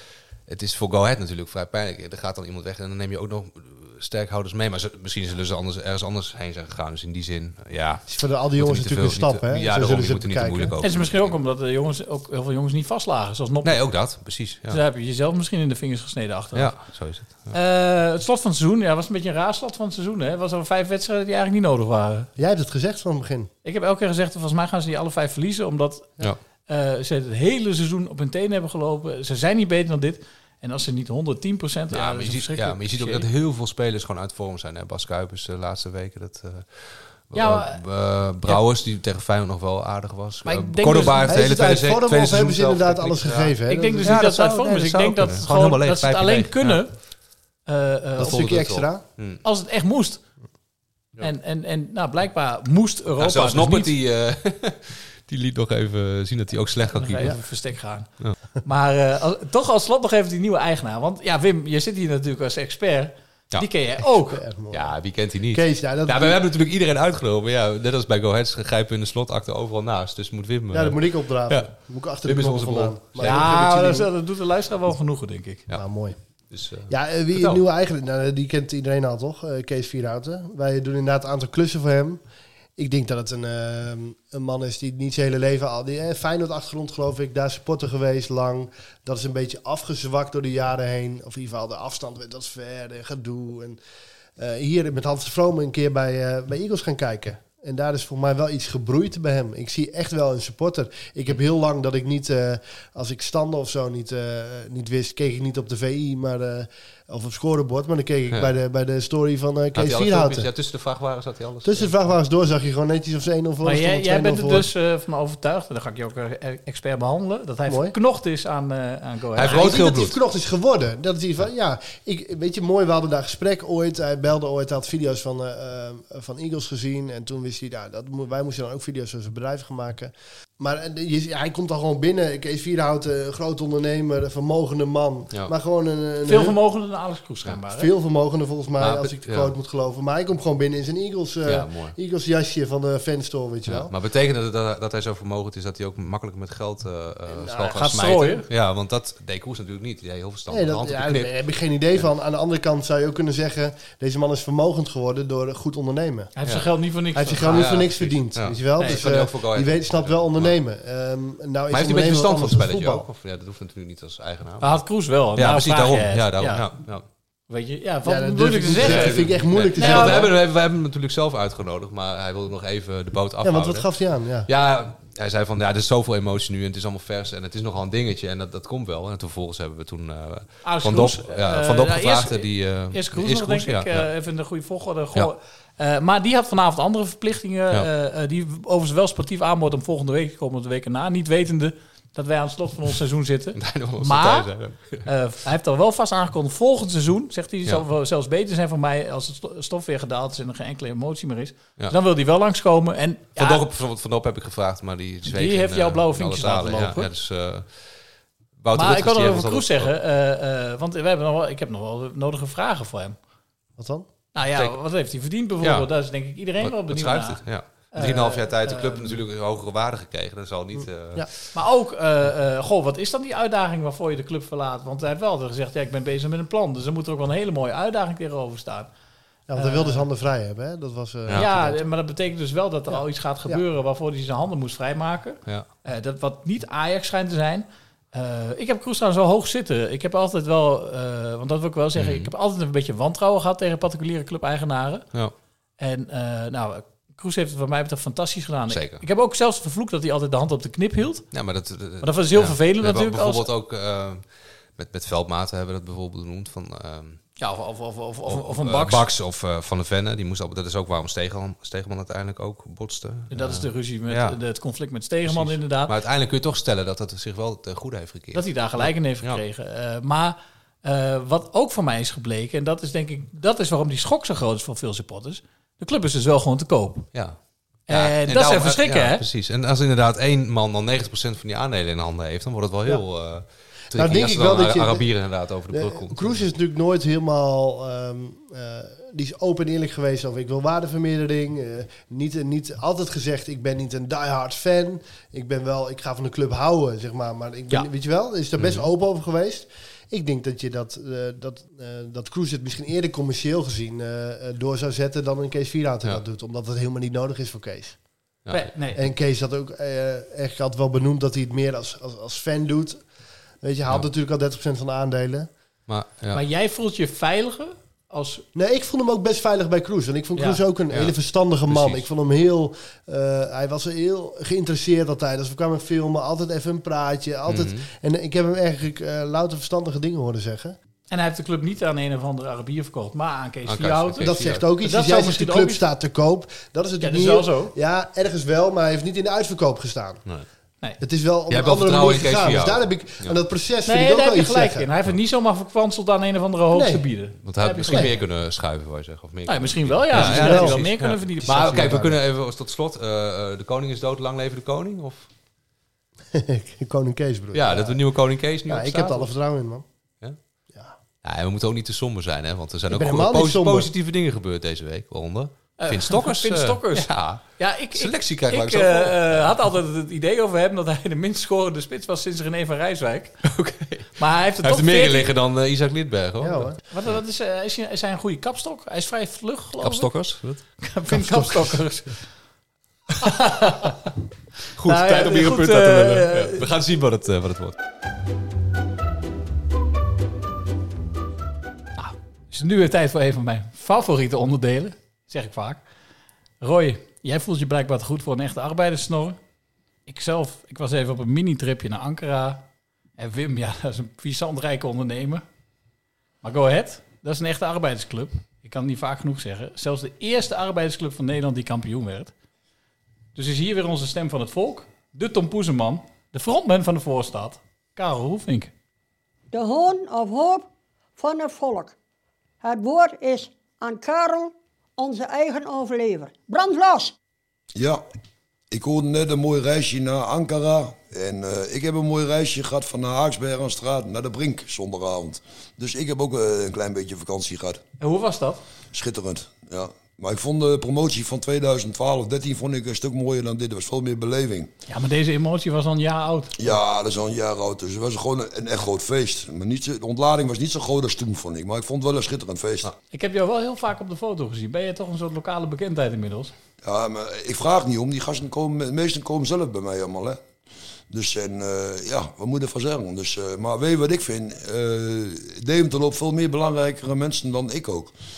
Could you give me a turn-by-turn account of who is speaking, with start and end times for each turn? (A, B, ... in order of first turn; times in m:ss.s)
0:00.5-0:08.0 A
0:08.1-0:10.8 B
0:08.6-0:11.3 A
0:10.8-0:13.9 C
0:13.6-0:14.8 A
0:14.7-0:16.7 C
0:16.5-0:17.5 A
0:17.5-0:22.3 C
0:22.4-0:23.5 B
0:23.6-0:26.1 C
0:26.7-0:33.2 C
0:31.9-0:46.8 A
0:37.3-0:37.8 C
0:40.4-0:41.3 C
0:41.2-0:44.2 B
0:43.7-0:47.0 C
0:47.6-0:48.5 C
0:48.2-0:49.0 B
0:48.2-0:49.4 A
0:49.4-0:50.2 C
0:51.2-0:53.9 C
0:53.2-0:57.4 A
0:56.9-0:58.1 C
0:58.6-1:04.4 C
1:04.3-1:04.9 B
1:04.7-1:11.7 A
1:05.5-1:06.4 B
1:10.7-1:14.1 B
1:12.2-1:13.6 A
1:13.2-1:15.6 C
1:15.7-1:16.2 B
1:16.5-1:17.6 A
1:16.9-1:22.2 B
1:22.8-1:33.8 B
1:34.4-1:50.5 B
1:49.7-1:51.9 A
1:51.6-1:54.7 B
1:53.6-1:59.8 C
1:57.7-1:57.9 B
1:59.3-2:00.2 A
1:59.4-2:16.6 B
2:16.2-2:17.9 C
2:17.7-2:23.9 B
2:18.8-2:19.5 A
2:21.4-2:21.9 A
2:23.7-2:31.3 A
2:27.3-2:27.8 B
2:27.7-2:28.4 C
2:30.5-2:36.3 B
2:36.4-2:37.7 C
2:37.2-2:43.0 B
2:37.5-2:40.5 A
2:41.7-2:44.8 A
2:44.6-2:46.6 C
2:45.4-2:47.0 A
2:47.5-2:50.3 C
2:48.0-2:50.3 B
2:48.8-2:53.8 A
2:53.4-2:54.5 B
2:54.5-3:04.1 A
3:00.6-3:14.5 C
3:13.6-3:15.1 A
3:15.0-3:23.6 C
3:23.4-3:27.9 A
3:25.2-3:27.1 C
3:28.6-3:29.9 A
3:28.7-3:33.2 C
3:33.8-3:34.1 B
3:34.3-3:37.4 C
3:35.6-3:35.9 A
3:36.6-3:41.4 A
3:37.9-3:39.2 C
3:40.7-3:41.3 B
3:41.5-3:48.9 C
3:49.5-3:51.8 B
3:49.6-3:50.0 C
3:51.3-4:05.1 C
3:52.9-3:53.6 B
4:02.0-4:02.3 A
4:05.8-4:11.2 C
4:08.7-4:09.0 A
4:11.3-4:14.2 A
4:12.0-4:13.5 C
4:14.8-4:17.2 A
4:17.4-4:19.0 C
4:18.2-4:24.4 A
4:23.3-4:25.9 C
4:25.2-4:29.4 A
4:28.3-4:37.1 C
4:37.1-4:46.4 A
4:37.9-4:39.2 C
4:43.9-4:45.0 B
4:45.7-5:08.0 B
4:58.6-4:58.8 A
5:08.4-5:08.7 A
5:08.5-5:09.0 C
5:08.9-5:13.0 B
5:13.6-5:15.5 B
5:15.9-5:16.4 A
5:16.3-5:18.4 C
5:18.5-5:30.8 B
5:21.7-5:22.1 A
5:27.5-5:27.8 A
5:31.1-5:35.8 C
5:33.6-5:34.6 A
5:34.2-5:40.2 B
5:37.0-5:37.7 C
5:41.0-5:44.9 B
5:41.5-5:43.3 A
5:43.8-5:48.1 C
5:46.7-5:47.0 B
5:47.4-5:55.3 A
5:47.9-5:48.1 B
5:49.5-5:52.1 C
5:50.1-5:50.8 B
5:51.4-5:52.1 B
5:56.3-5:58.0 B
5:57.5-5:59.3 A
5:58.7-5:59.8 B
6:01.2-6:09.5 A
6:02.9-6:03.9 B
6:05.8-6:13.4 C
6:13.4-6:16.7 A
6:14.2-6:15.3 C
6:16.4-6:16.8 B
6:16.9-6:20.1 C
6:19.8-6:20.6 A
6:20.8-6:22.1 C
6:21.1-6:21.7 B
6:23.1-6:24.0 C
6:24.8-6:27.7 A
6:24.9-6:26.6 C
6:32.0-6:35.8 C
6:36.6-6:39.4 C
6:40.1-6:42.6 C
6:43.2-6:45.4 C
6:46.4-6:52.3 C
6:53.3-6:58.7 C
6:59.5-7:01.9 D
7:02.6-7:07.1 D
7:07.7-7:08.0 E
7:08.7-7:17.8 E
7:18.0-7:18.6 C
7:18.9-7:24.7 E
7:24.9-7:26.7 C
7:26.6-7:32.9 E
7:33.1-7:36.5 C
7:36.8-7:40.4 E
7:41.1-7:48.1 E